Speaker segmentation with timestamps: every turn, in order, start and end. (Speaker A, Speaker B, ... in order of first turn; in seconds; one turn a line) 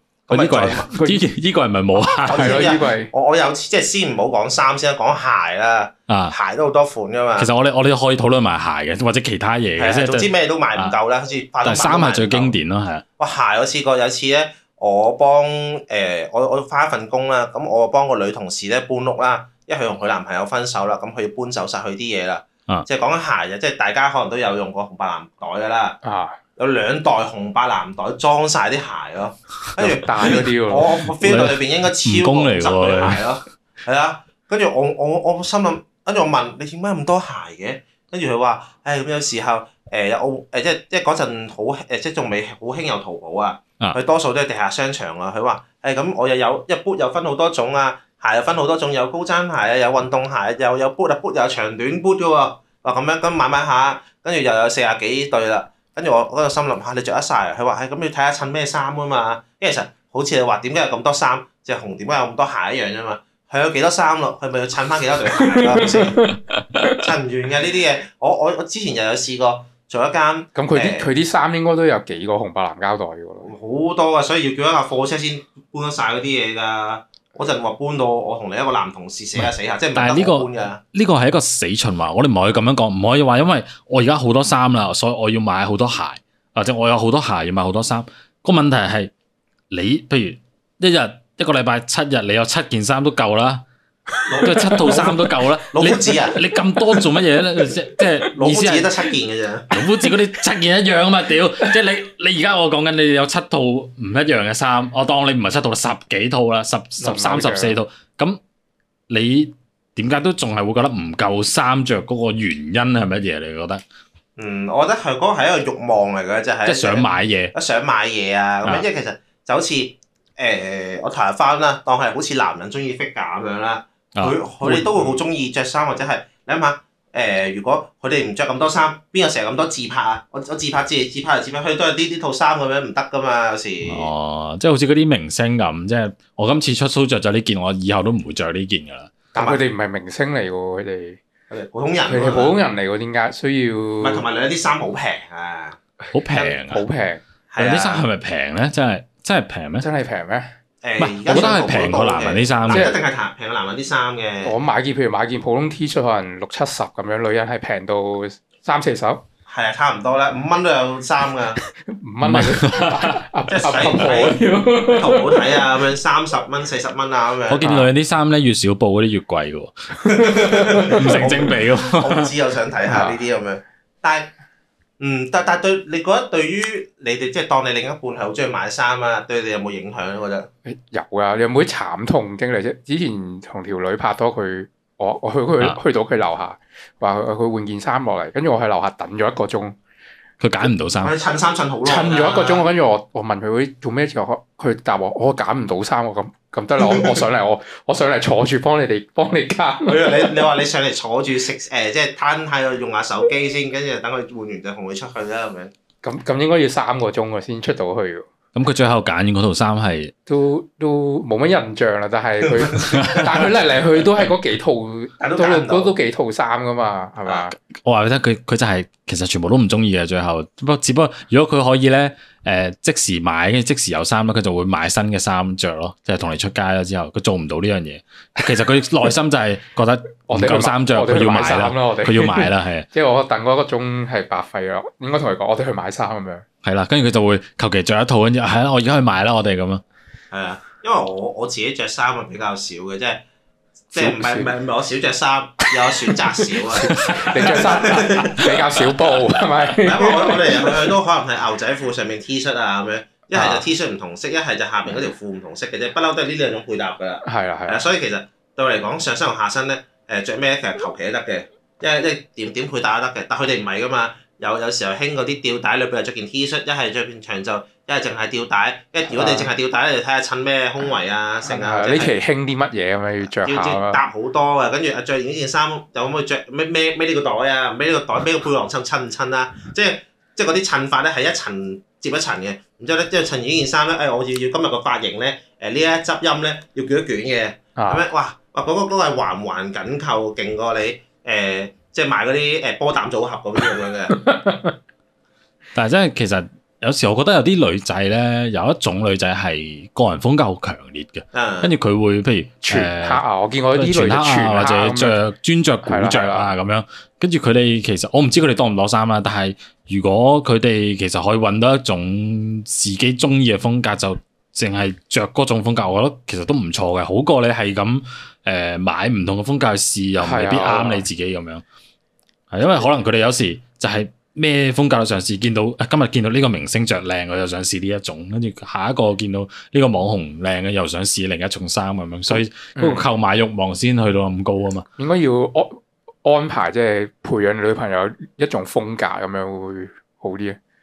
Speaker A: 0.3-0.9
Speaker B: 0.3-2.7
Speaker C: 0.9-1.2
Speaker A: 2.1-7.5
Speaker C: 2.3-3.1
Speaker B: 6.1-6.3
Speaker B: 7.4-10.9
Speaker A: 9.8-12.6
Speaker B: 11.6-13.0
Speaker A: 13.2-26.0
Speaker C: 26.0-26.4
Speaker A: 26.6-66.3
Speaker C: 29.8-30.9
Speaker B: 31.2-33.2
Speaker C: 65.4-66.8
Speaker A: 66.8-71.1
Speaker C: 70.5-73.5
Speaker A: 73.4-80.8
Speaker B: 79.4-89.1
Speaker B: 89.7-93.6
Speaker A: 94.3-96.4
Speaker C: 94.3-95.0
Speaker B: 94.4-98.9
Speaker A: 98.3-99.7
Speaker B: 99.7-108.4
Speaker C: 107.0-107.8
Speaker B: 109.1-113.8
Speaker A: 114.4-134.1
Speaker B: 116.6-117.5
Speaker B: 124.2-125.1
Speaker B: 133.8-139.1
Speaker C: 139.3-141.2
Speaker A: 139.3-139.6
Speaker A: 141.5-142.6
Speaker C: 142.0-144.2
Speaker A: 144.0-145.8
Speaker B: 146.1-146.8
Speaker A: 146.3-146.6
Speaker C: 146.6-147.2
Speaker A: 147.5-148.1
Speaker B: 147.6-149.8
Speaker C: 149.8-150.5
Speaker A: 150.8-154.6
Speaker B: 151.0-152.9
Speaker C: 152.7-152.9
Speaker C: 154.4-159.2
Speaker A: 159.5-161.6
Speaker C: 161.9-165.5
Speaker B: 162.2-163.2
Speaker A: 163.5-167.7
Speaker B: 167.5-169.7
Speaker C: 167.6-167.9
Speaker A: 170.1-174.3
Speaker B: 170.9-172.3
Speaker C: 171.0-171.4
Speaker C: 172.8-173.2
Speaker A: 175.0-180.5
Speaker C: 180.6-189.8
Speaker B: 190.4-191.1
Speaker A: 191.0-192.7
Speaker C: 191.8-200.4
Speaker A: 196.8-197.2
Speaker A: 199.8-205.7
Speaker C: 206.0-208.3
Speaker B: 208.5-210.1
Speaker C: 210.3-217.5
Speaker B: 212.8-213.4
Speaker A: 215.2-215.9
Speaker B: 217.8-232.8
Speaker C: 230.3-236.4
Speaker B: 236.6-239.8
Speaker A: 240.3-243.2
Speaker A: 243.9-248.4
Speaker C: 243.9-244.5
Speaker C: 246.6-250.9
Speaker B: 246.9-248.3
Speaker A: 249.8-272.2
Speaker C: 253.3-253.7
Speaker C: 257.2-257.8
Speaker C: 269.1-269.5
Speaker C: 271.4-274.0
Speaker A: 273.3-294.2
Speaker C: 287.8-288.0
Speaker C: 294.2-294.7
Speaker B: 295.7-303.2
Speaker A: 301.3-301.7
Speaker C: 302.6-305.2
Speaker B: 303.7-321.6
Speaker C: 305.8-306.5
Speaker C: 320.2-321.1
Speaker B: 322.5-334.9
Speaker C: 332.3-333.1
Speaker C: 335.0-340.6